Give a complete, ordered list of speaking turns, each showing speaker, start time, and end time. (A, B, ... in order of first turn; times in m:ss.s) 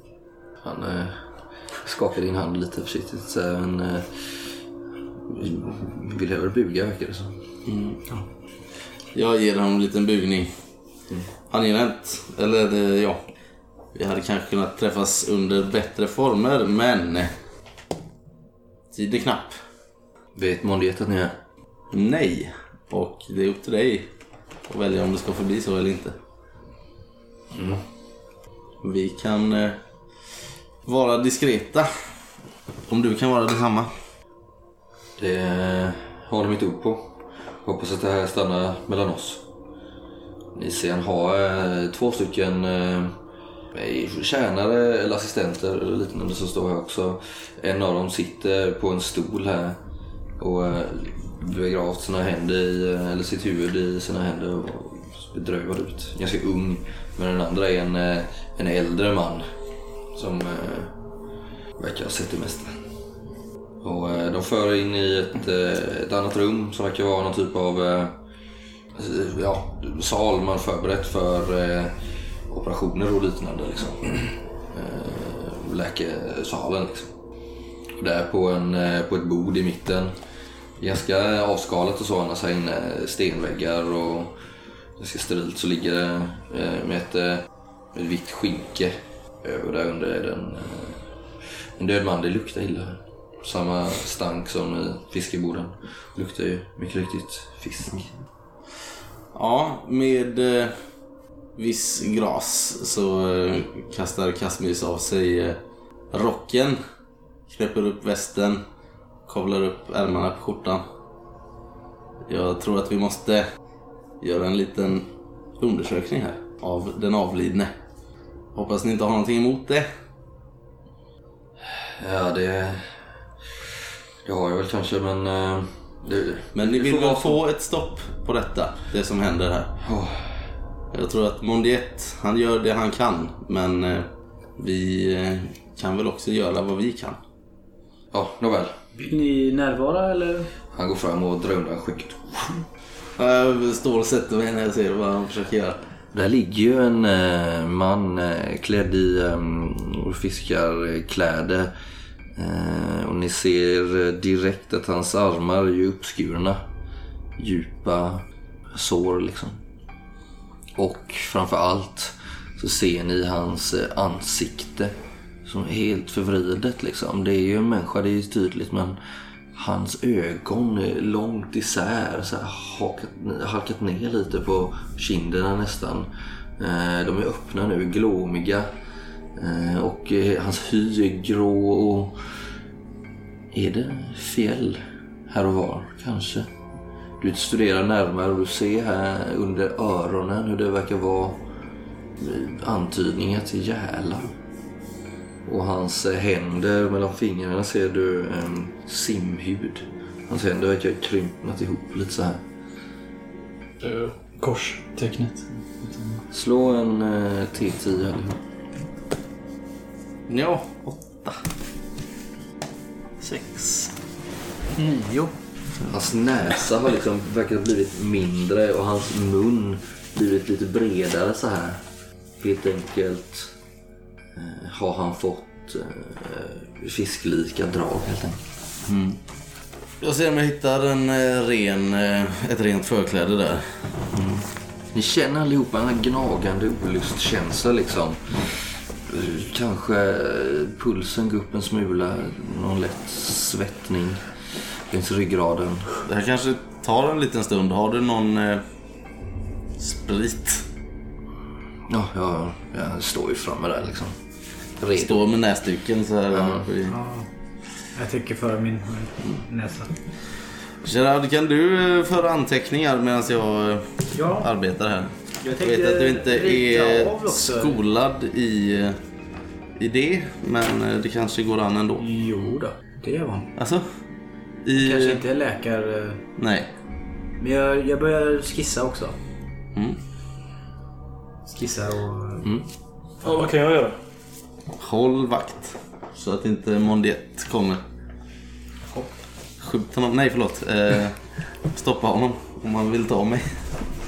0:00.6-0:04.6 A
0:05.3-0:07.4 A
0:07.6-0:08.0 B
0:09.1-0:10.5 B
0:11.5-0:13.2 B
0:13.9-0:17.3 B
0:18.9-0:19.6 B
0:20.3-0:21.4 A
0:21.9-0:24.1 B
0:24.6-0:26.2 B
0:27.5-0:27.8 A
0:28.8-0:29.8 B
0:30.8-0:31.9 B
0:32.9-0:33.9 B
0:35.2-0:39.4 A
0:40.5-0:43.1 A
0:43.7-0:49.8 A
0:50.4-0:59.6 A
1:00.1-1:01.0 A
1:01.8-1:02.8 A
1:03.8-1:08.1 A
1:08.9-1:17.1 A
1:18.0-1:20.1 A
1:20.8-1:24.4 A
1:25.0-1:38.1 A
1:39.3-1:40.8 B
1:41.5-1:46.8 B
1:47.5-1:48.6 B
1:49.2-1:50.8 B
1:52.2-1:53.4 B
1:54.2-1:57.7 B
1:58.5-1:59.9 B
2:01.6-2:03.1 A
2:04.2-2:07.4 A
2:06.5-2:09.7 B
2:09.8-2:10.4 A
2:10.9-2:17.2 B
2:18.1-2:18.8 A
2:18.9-2:20.5 C
2:20.7-2:22.6 A
2:23.2-2:25.8 B
2:26.1-2:31.7 A
2:32.4-2:36.6 A
2:37.4-2:39.6 A
2:40.8-2:44.9 A
2:45.4-2:49.0 A
2:49.5-2:58.7 A
2:59.4-3:02.3 A
3:03.5-3:06.5 A
3:07.2-3:11.4 A
3:12.2-3:14.3 A
3:15.4-3:22.4 A
3:23.8-3:26.2 D
3:26.3-3:28.4 A
3:30.3-3:31.5 B
3:33.2-3:33.9 B
3:34.7-3:35.3 C
3:35.8-3:41.8 A
3:42.4-3:43.5 A
3:44.3-3:49.2 A
3:50.0-3:53.8 B
3:54.1-4:05.9 A
4:06.0-4:08.6 B
4:09.8-4:10.6 B
4:11.9-4:14.2 A
4:14.8-4:15.2 A
4:15.0-4:17.0 B
4:16.3-4:16.6 A
4:16.9-4:17.3 C
4:17.8-4:20.0 C
4:20.8-4:29.0 B
4:24.1-4:24.5 C
4:25.4-4:27.8 C
4:29.8-4:32.0 B
4:32.0-4:33.5 C
4:33.6-4:33.9 B
4:34.6-4:35.2 B
4:34.8-4:36.2 C
4:36.4-4:36.7 B
4:37.4-4:39.2 C
4:41.4-4:42.5 C
4:43.2-4:44.0 D
4:44.7-4:47.8 B
4:49.6-4:53.6 B